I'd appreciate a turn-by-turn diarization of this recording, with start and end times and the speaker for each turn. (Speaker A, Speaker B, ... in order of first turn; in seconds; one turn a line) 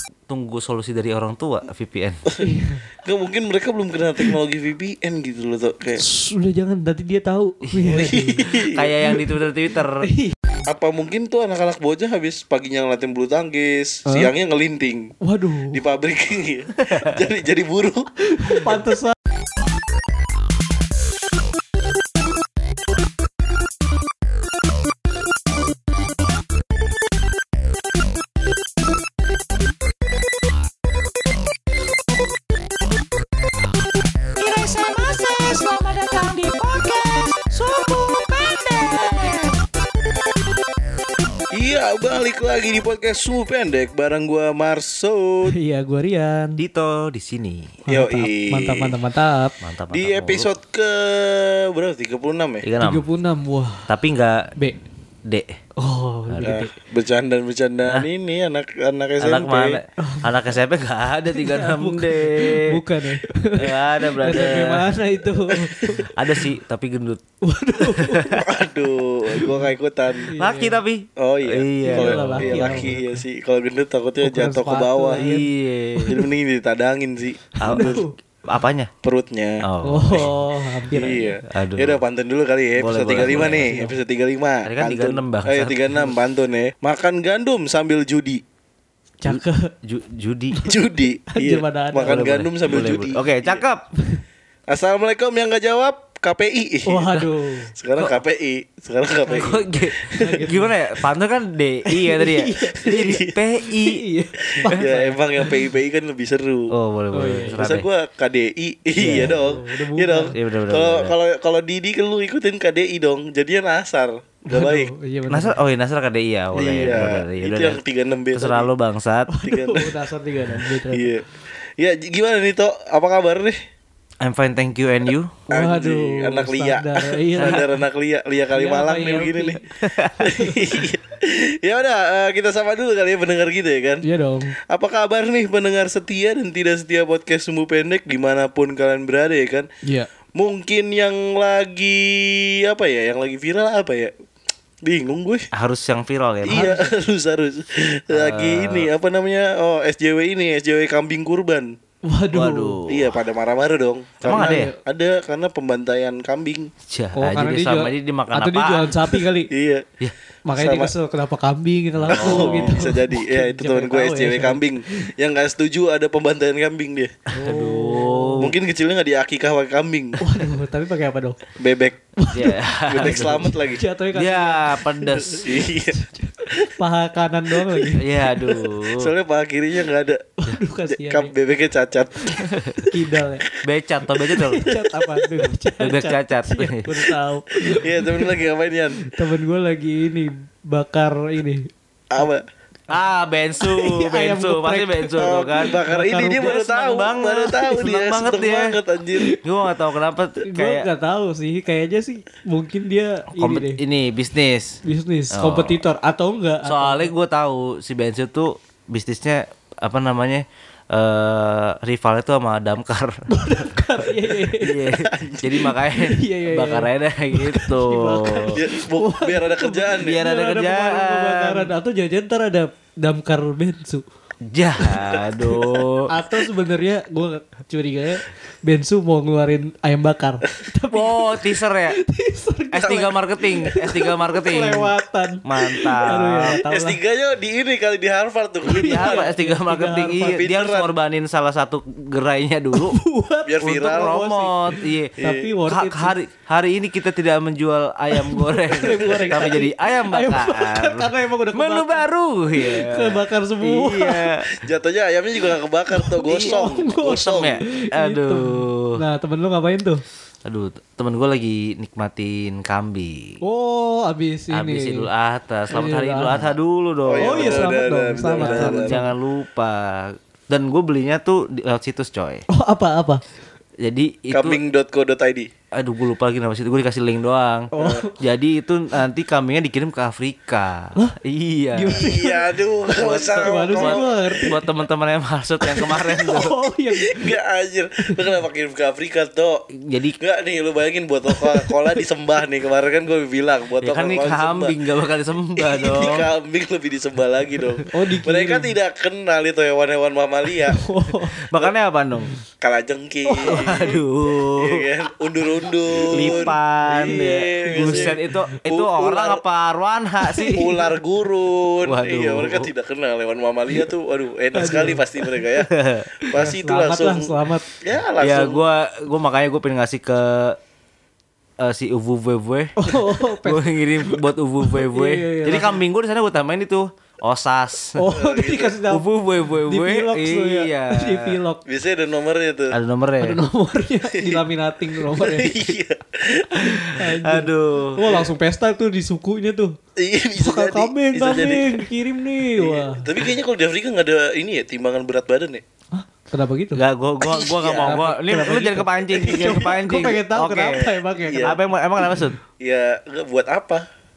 Speaker A: 0.3-2.2
Speaker B: 2.4-2.9
Speaker C: 3.0-6.0
Speaker B: 6.0-8.5
Speaker A: 7.6-8.0
Speaker C: 7.9-8.9
Speaker A: 8.5-10.1
Speaker B: 10.0-10.3
Speaker C: 10.7-15.1
Speaker B: 14.1-14.3
Speaker B: 15.2-15.8
Speaker C: 15.7-18.1
Speaker B: 18.3-19.1
Speaker D: 34.4-39.6
Speaker C: 41.5-45.5
Speaker B: 45.5-46.6
Speaker A: 46.6-47.8
Speaker B: 47.9-49.5
Speaker C: 47.9-48.9
Speaker A: 49.6-50.5
Speaker C: 49.9-52.6
Speaker A: 52.6-53.0
Speaker B: 52.8-53.9
Speaker A: 53.9-54.5
Speaker A: 55.3-55.6
Speaker B: 55.8-56.7
Speaker A: 56.3-56.5
Speaker C: 56.4-59.8
Speaker A: 59.2-62.8
Speaker B: 60.0-60.3
Speaker B: 61.3-66.4
Speaker A: 63.5-64.9
Speaker C: 65.5-66.0
Speaker A: 65.9-67.2
Speaker B: 67.4-68.5
Speaker A: 67.8-68.4
Speaker C: 68.4-70.3
Speaker B: 70.2-70.8
Speaker A: 70.4-72.9
Speaker C: 71.2-75.3
Speaker B: 71.8-73.2
Speaker B: 74.2-75.5
Speaker A: 75.2-76.1
Speaker C: 76.1-78.0
Speaker A: 77.6-78.9
Speaker B: 77.6-78.1
Speaker C: 79.0-79.6
Speaker A: 79.6-80.3
Speaker B: 79.8-81.2
Speaker C: 80.9-88.4
Speaker A: 81.5-82.0
Speaker A: 82.8-83.8
Speaker B: 83.5-83.9
Speaker A: 84.6-86.1
Speaker B: 89.2-89.7
Speaker A: 89.2-90.5
Speaker C: 90.7-93.6
Speaker B: 91.3-92.3
Speaker A: 92.0-93.9
Speaker C: 94.7-97.1
Speaker B: 96.8-97.7
Speaker C: 97.7-100.4
Speaker A: 99.3-104.0
Speaker B: 100.2-100.7
Speaker B: 101.9-102.9
Speaker C: 102.8-103.3
Speaker B: 103.7-105.6
Speaker C: 104.5-106.7
Speaker A: 106.7-107.8
Speaker B: 107.1-107.6
Speaker C: 107.6-114.9
Speaker A: 109.0-109.3
Speaker B: 109.1-110.3
Speaker A: 110.3-111.1
Speaker B: 114.5-115.6
Speaker A: 115.3-117.8
Speaker C: 116.5-118.7
Speaker A: 118.3-119.3
Speaker B: 119.3-121.1
Speaker C: 119.4-119.9
Speaker C: 120.9-121.2
Speaker C: 121.8-123.6
Speaker A: 124.2-125.3
Speaker B: 125.5-127.8
Speaker C: 125.5-129.6
Speaker B: 128.5-129.6
Speaker A: 129.7-130.3
Speaker C: 130.2-134.0
Speaker B: 130.2-130.8
Speaker B: 134.0-134.5
Speaker C: 134.6-139.7
Speaker C: 140.3-144.1
Speaker C: 144.8-145.5
Speaker A: 145.5-146.7
Speaker C: 146.4-151.7
Speaker B: 146.5-146.9
Speaker A: 148.1-148.9
Speaker B: 152.0-152.8
Speaker A: 152.3-153.2
Speaker C: 152.9-156.7
Speaker A: 154.2-154.7
Speaker B: 154.2-154.8
Speaker A: 156.9-159.0
Speaker B: 157.1-159.5
Speaker C: 159.5-159.9
Speaker B: 160.4-165.1
Speaker C: 160.5-160.9
Speaker A: 162.0-162.8
Speaker C: 162.1-167.1
Speaker B: 167.3-168.4
Speaker A: 167.4-168.5
Speaker C: 168.4-170.2
Speaker B: 170.2-171.4
Speaker C: 171.6-172.0
Speaker B: 172.2-178.6
Speaker A: 172.3-173.6
Speaker C: 172.9-173.8
Speaker A: 174.1-175.4
Speaker C: 175.3-175.9
Speaker A: 178.0-179.1
Speaker C: 178.8-180.2
Speaker B: 180.4-181.3
Speaker C: 180.9-182.4
Speaker A: 182.4-182.8
Speaker B: 182.9-183.5
Speaker A: 183.6-184.6
Speaker B: 184.3-188.4
Speaker C: 184.7-185.2
Speaker A: 185.8-187.0
Speaker C: 187.7-189.0
Speaker B: 189.0-191.7
Speaker C: 192.1-192.4
Speaker A: 192.9-195.8
Speaker B: 193.6-196.6
Speaker C: 195.2-199.2
Speaker A: 196.4-198.8
Speaker A: 199.4-200.9
Speaker B: 200.4-203.8
Speaker A: 203.4-204.8
Speaker B: 204.8-207.1
Speaker A: 205.3-205.8
Speaker A: 206.6-213.6
Speaker B: 213.3-214.8
Speaker A: 214.6-218.6
Speaker C: 215.0-215.6
Speaker B: 215.9-224.0
Speaker C: 218.5-220.2
Speaker A: 220.0-221.7
Speaker A: 224.4-226.1
Speaker B: 224.8-237.0
Speaker A: 230.9-232.0
Speaker A: 232.7-234.9
Speaker A: 235.4-236.6
Speaker C: 236.1-239.3
Speaker B: 238.7-240.4
Speaker A: 238.7-243.0
Speaker C: 240.2-240.9
Speaker B: 242.7-246.1
Speaker C: 243.4-244.3
Speaker A: 243.6-254.5
Speaker C: 245.2-245.5
Speaker B: 248.1-254.3
Speaker C: 254.5-257.6
Speaker B: 255.9-260.0
Speaker A: 256.3-258.9
Speaker A: 260.4-263.4
Speaker B: 263.4-265.1
Speaker A: 264.5-267.6
Speaker B: 265.7-266.5
Speaker C: 267.0-269.0
Speaker B: 267.2-269.1
Speaker A: 268.4-272.4
Speaker B: 272.5-273.2
Speaker A: 273.8-274.6
Speaker C: 274.3-275.5
Speaker A: 275.7-282.1
Speaker B: 277.7-278.2
Speaker C: 277.8-278.0
Speaker B: 281.7-282.4
Speaker C: 281.9-284.4
Speaker A: 282.9-286.6
Speaker B: 283.4-284.5
Speaker B: 285.6-287.3
Speaker C: 287.0-289.6
Speaker A: 289.7-290.2
Speaker C: 290.2-294.8
Speaker B: 291.3-292.0
Speaker A: 293.8-296.3
Speaker C: 295.6-300.8
Speaker B: 297.9-298.7
Speaker B: 300.7-301.4
Speaker A: 301.4-302.3
Speaker C: 302.6-304.0
Speaker B: 303.2-304.0
Speaker A: 303.5-304.9
Speaker C: 304.6-309.4
Speaker B: 306.0-306.5
Speaker A: 306.1-310.6
Speaker B: 307.6-308.2
Speaker B: 310.2-310.8
Speaker C: 310.5-315.7
Speaker A: 311.8-312.7
Speaker B: 314.5-315.4
Speaker A: 315.7-316.1
Speaker B: 316.2-317.6
Speaker C: 316.3-318.6
Speaker A: 318.2-320.6
Speaker A: 321.6-328.0
Speaker B: 322.8-325.8
Speaker B: 327.9-329.1
Speaker C: 328.1-328.8
Speaker A: 328.9-331.4
Speaker B: 329.7-331.6
Speaker C: 331.6-332.7
Speaker A: 332.7-333.4
Speaker B: 333.2-335.6
Speaker C: 334.1-334.4
Speaker C: 335.0-336.7
Speaker A: 336.7-338.0
Speaker B: 336.8-339.8
Speaker C: 340.0-341.9
Speaker B: 340.4-343.1
Speaker C: 342.6-345.6
Speaker B: 345.9-346.8
Speaker A: 346.8-350.8
Speaker C: 347.2-348.0
Speaker B: 347.8-352.0
Speaker C: 349.2-349.6
Speaker C: 351.2-351.6
Speaker A: 351.4-352.4
Speaker C: 352.6-353.9